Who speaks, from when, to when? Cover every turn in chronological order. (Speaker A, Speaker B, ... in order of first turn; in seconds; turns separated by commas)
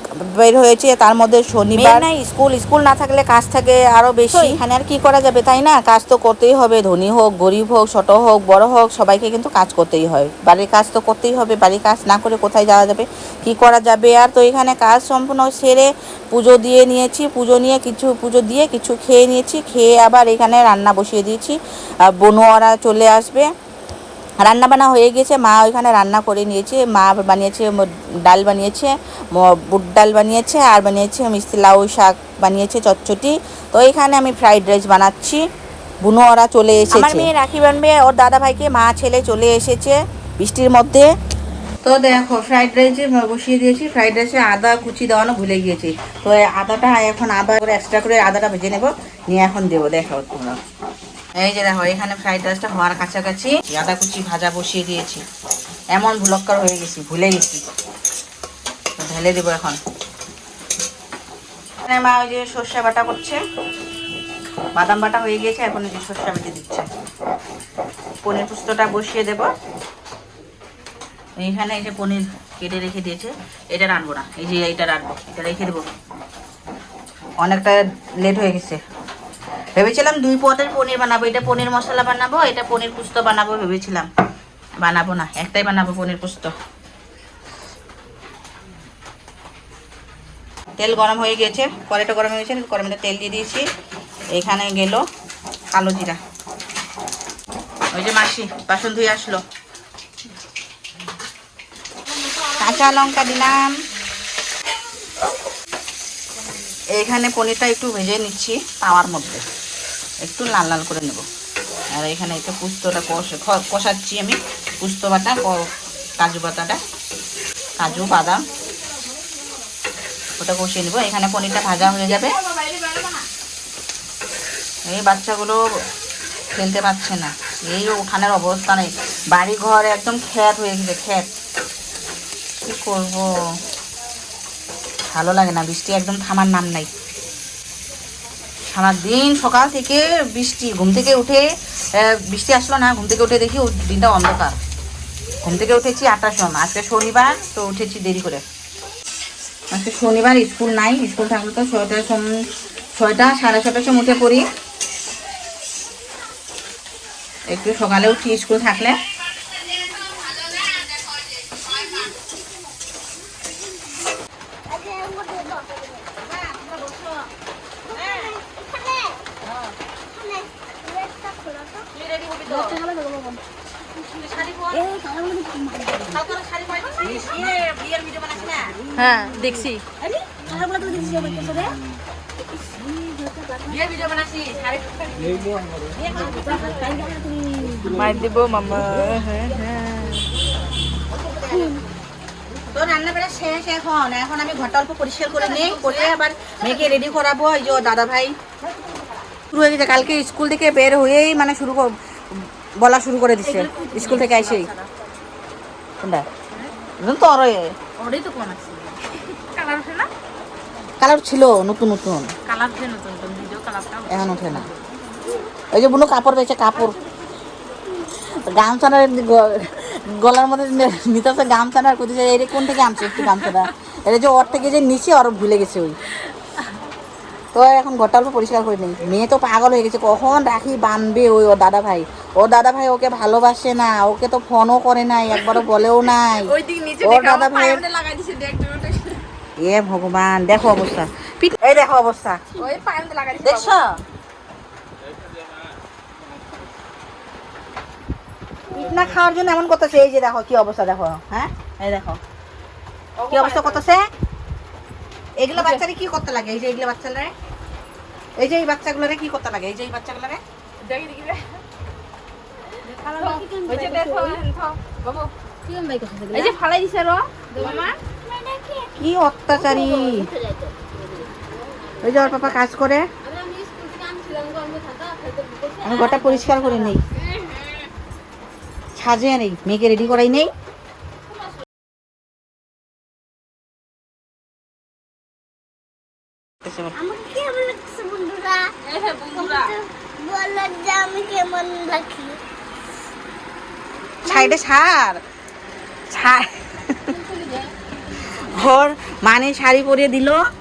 Speaker A: 0.3-23.5, Speaker A: 24.4-35.4, Speaker A: 36.0-41.1, Speaker A: 41.8-50.6, Speaker A: 51.4-55.2, Speaker A: 55.9-57.6, Speaker A: 59.0-59.8, Speaker A: 61.8-63.4, Speaker A: 64.7-66.8, Speaker A: 68.2-69.5, Speaker A: 71.4-75.8, Speaker A: 77.4-78.8, Speaker A: 79.8-84.1, Speaker A: 84.8-86.5, Speaker A: 90.8-93.7, Speaker A: 94.3-95.0, Speaker A: 95.7-96.2, Speaker A: 97.9-99.4, Speaker A: 102.5-103.8, Speaker A: 106.9-109.4, Speaker A: 110.2-111.2, Speaker A: 111.9-116.8, Speaker A: 117.8-118.5, Speaker A: 120.4-122.4, Speaker B: 122.4-123.2, Speaker A: 124.8-125.6, Speaker A: 126.5-131.3, Speaker A: 132.6-133.4, Speaker A: 135.1-136.9, Speaker A: 138.7-144.6, Speaker A: 145.4-148.4, Speaker A: 149.7-154.4, Speaker A: 157.5-159.0, Speaker C: 164.7-166.1, Speaker B: 166.8-167.2, Speaker C: 167.9-169.2, Speaker C: 170.1-171.9, Speaker B: 172.0-172.8, Speaker C: 172.6-173.4, Speaker A: 174.2-174.6, Speaker C: 174.7-176.1, Speaker A: 176.2-178.7, Speaker B: 178.9-179.8, Speaker A: 180.0-181.7, Speaker B: 182.9-185.2, Speaker A: 183.9-184.5, Speaker A: 186.0-187.1, Speaker B: 186.1-186.8, Speaker C: 186.8-187.9, Speaker B: 187.8-190.2, Speaker A: 191.2-191.6, Speaker C: 191.4-191.8, Speaker A: 192.7-198.3, Speaker A: 199.5-204.7, Speaker B: 203.4-204.9, Speaker A: 206.0-206.3, Speaker A: 207.0-207.7, Speaker B: 208.0-210.1, Speaker A: 211.0-212.3, Speaker B: 212.4-214.8, Speaker A: 214.1-214.7, Speaker A: 215.7-217.0, Speaker A: 218.3-226.0, Speaker A: 227.5-237.8, Speaker B: 235.3-239.2, Speaker A: 239.6-242.4, Speaker B: 242.6-243.8, Speaker A: 243.4-243.9, Speaker A: 248.7-252.2, Speaker B: 253.2-253.9, Speaker A: 253.3-254.1, Speaker A: 255.4-257.3, Speaker B: 255.5-255.8, Speaker A: 258.4-260.4, Speaker B: 260.8-261.6, Speaker C: 262.9-264.4, Speaker B: 263.1-265.3, Speaker C: 266.1-266.5, Speaker B: 266.3-268.0, Speaker C: 267.6-268.9, Speaker A: 269.0-270.3, Speaker B: 269.6-271.2, Speaker A: 272.0-273.1, Speaker B: 272.0-272.6, Speaker B: 273.2-277.0, Speaker A: 275.8-277.0, Speaker A: 278.9-280.5, Speaker A: 286.6-286.9, Speaker C: 286.9-288.7, Speaker B: 288.8-289.7, Speaker C: 289.3-292.4, Speaker C: 294.2-294.6, Speaker A: 294.2-295.2, Speaker A: 296.1-297.1, Speaker B: 297.1-298.6, Speaker A: 298.1-300.4